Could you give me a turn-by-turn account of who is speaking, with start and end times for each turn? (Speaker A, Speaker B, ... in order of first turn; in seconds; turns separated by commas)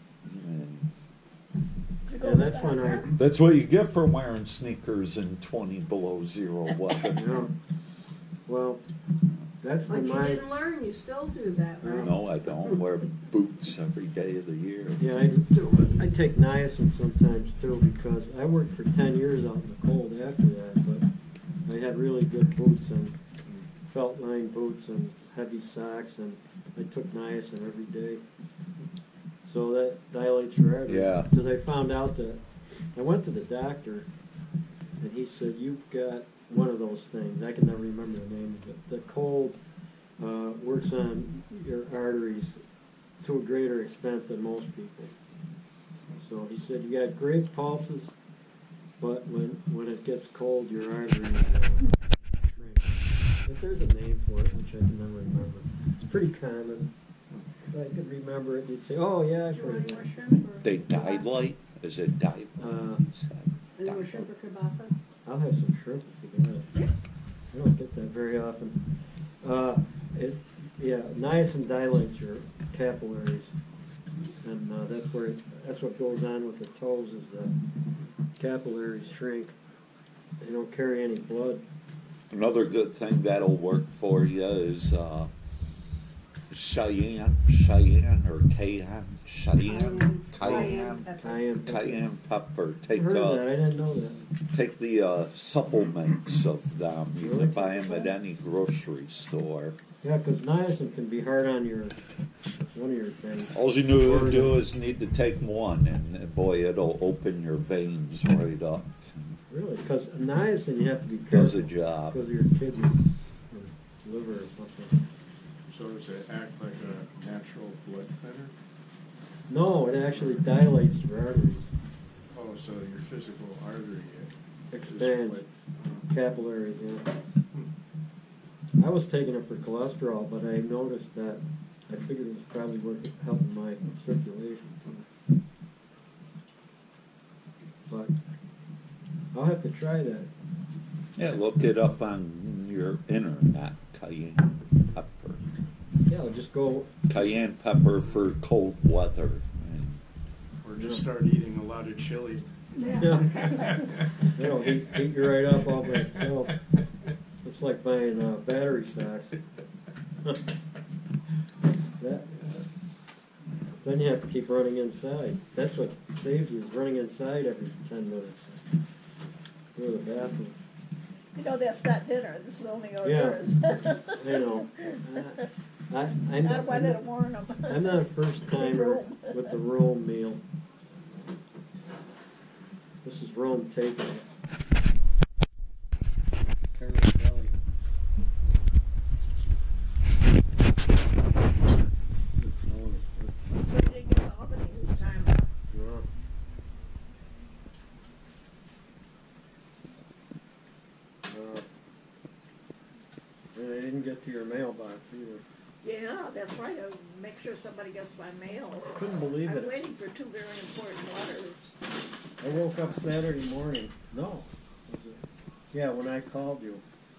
Speaker A: 0.2-0.9, Speaker B: 2.1-3.1, Speaker C: 2.2-3.1, Speaker A: 3.2-7.5, Speaker C: 7.1-7.5, Speaker C: 8.5-8.8, Speaker C: 9.6-10.4, Speaker D: 9.9-12.8, Speaker C: 11.8-12.1, Speaker A: 12.0-15.0, Speaker C: 15.0-21.1, Speaker C: 21.7-23.1, Speaker C: 23.8-28.2, Speaker C: 29.4-34.1, Speaker A: 30.9-31.3, Speaker C: 35.0-39.6, Speaker C: 40.2-42.6, Speaker C: 43.2-45.1, Speaker C: 46.2-48.1, Speaker C: 49.0-51.9, Speaker C: 52.4-56.9, Speaker C: 57.6-60.1, Speaker D: 59.5-61.4, Speaker A: 60.6-64.3, Speaker C: 62.6-63.0, Speaker D: 63.8-64.9, Speaker C: 65.2-66.7, Speaker C: 67.5-73.5, Speaker C: 74.4-77.5, Speaker C: 78.4-79.6, Speaker C: 80.4-81.6, Speaker A: 82.3-85.3, Speaker A: 86.5-91.1, Speaker D: 89.6-91.4, Speaker C: 90.4-92.0, Speaker A: 91.6-93.4, Speaker C: 92.9-94.2, Speaker A: 94.5-99.8, Speaker C: 97.2-98.1, Speaker C: 100.0-102.0, Speaker C: 102.6-104.6, Speaker A: 103.5-109.4, Speaker C: 109.5-115.0, Speaker A: 111.3-112.2, Speaker E: 115.7-118.5, Speaker C: 119.5-121.7, Speaker E: 122.3-126.1, Speaker C: 124.7-125.4, Speaker C: 126.1-127.1, Speaker C: 128.8-135.0, Speaker C: 139.3-140.3, Speaker A: 141.2-145.4, Speaker C: 146.1-147.3, Speaker A: 147.1-150.0, Speaker E: 150.6-154.1, Speaker C: 150.8-151.1, Speaker D: 152.8-153.5, Speaker C: 153.0-153.8, Speaker C: 154.3-156.6, Speaker C: 157.4-159.4, Speaker C: 160.2-160.5, Speaker C: 162.0-162.3, Speaker C: 163.8-168.6, Speaker C: 169.8-170.6, Speaker B: 171.3-175.4, Speaker C: 173.0-177.0, Speaker B: 176.4-179.5, Speaker C: 177.7-180.4, Speaker C: 183.0-184.3, Speaker C: 186.8-187.5, Speaker C: 192.4-193.4, Speaker B: 193.6-195.5, Speaker C: 195.7-196.1, Speaker C: 201.3-201.7, Speaker C: 203.6-205.4, Speaker B: 205.8-211.8, Speaker C: 208.9-209.8, Speaker C: 212.4-216.8, Speaker B: 212.4-213.1